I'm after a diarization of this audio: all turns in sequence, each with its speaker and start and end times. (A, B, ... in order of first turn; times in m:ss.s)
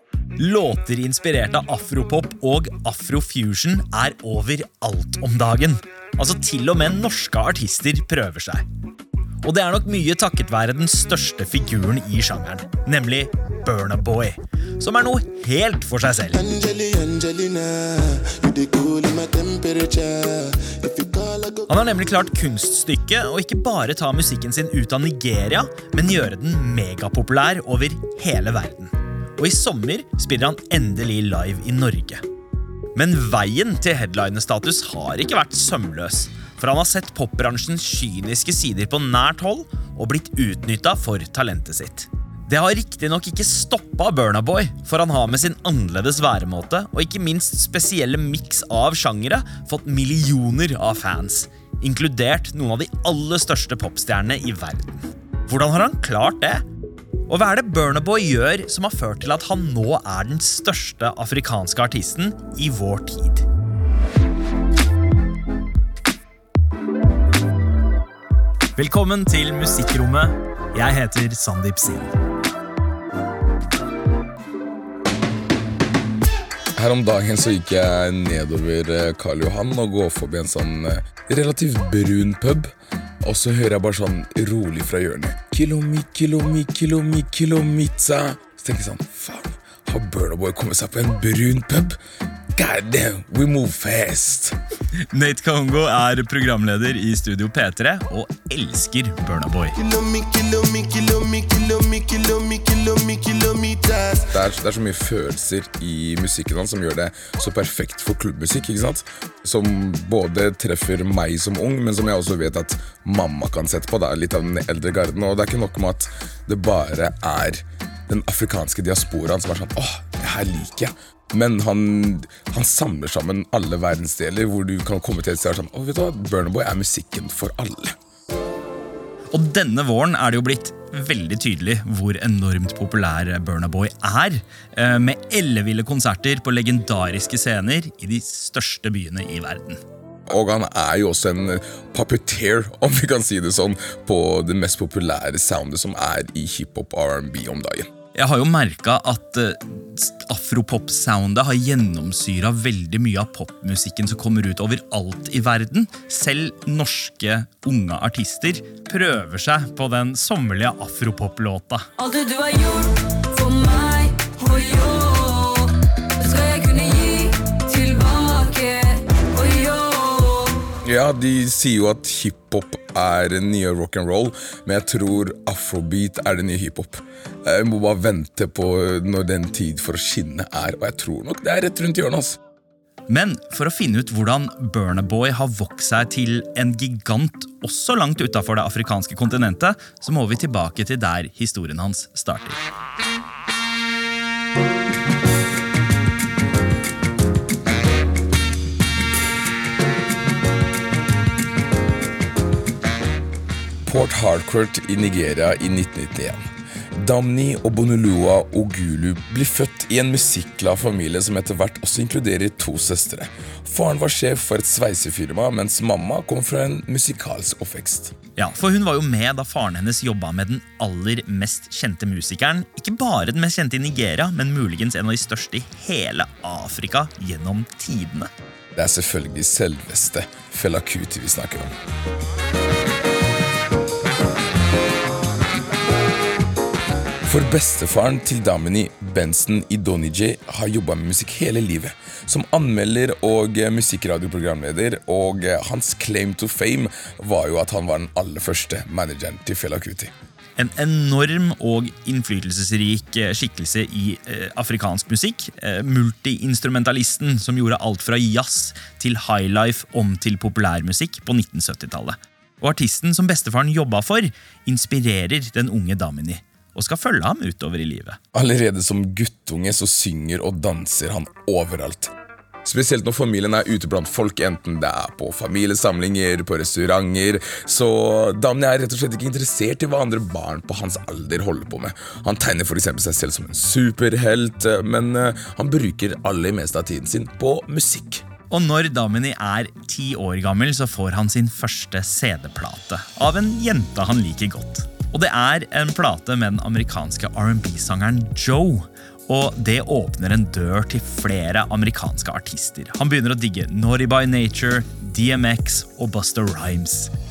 0:00.4-0:08.6 A
0:09.4-0:16.4 A
0:16.3-0:21.7 B
0:21.7-0:32.2 A
0:32.9-0:56.6 A
0:57.3-1:03.4 A
1:08.8-1:12.1 A
1:16.7-1:22.7 C
1:23.2-1:32.0 C
1:32.6-1:34.6 C
1:35.1-1:39.8 A
1:39.8-1:44.3 B
1:44.3-2:08.0 C
2:09.3-2:19.8 A
2:20.3-2:27.9 C
2:28.1-2:41.9 A
2:42.0-2:50.6 D
2:50.8-3:02.4 C
3:03.1-3:12.6 A
3:23.8-3:38.1 C
3:38.4-3:48.3 A
3:48.7-3:51.7 C
3:57.2-4:10.1 C
4:10.6-4:28.2 A
4:28.3-4:32.1 C
4:32.6-4:48.2 C
4:48.5-5:07.1 A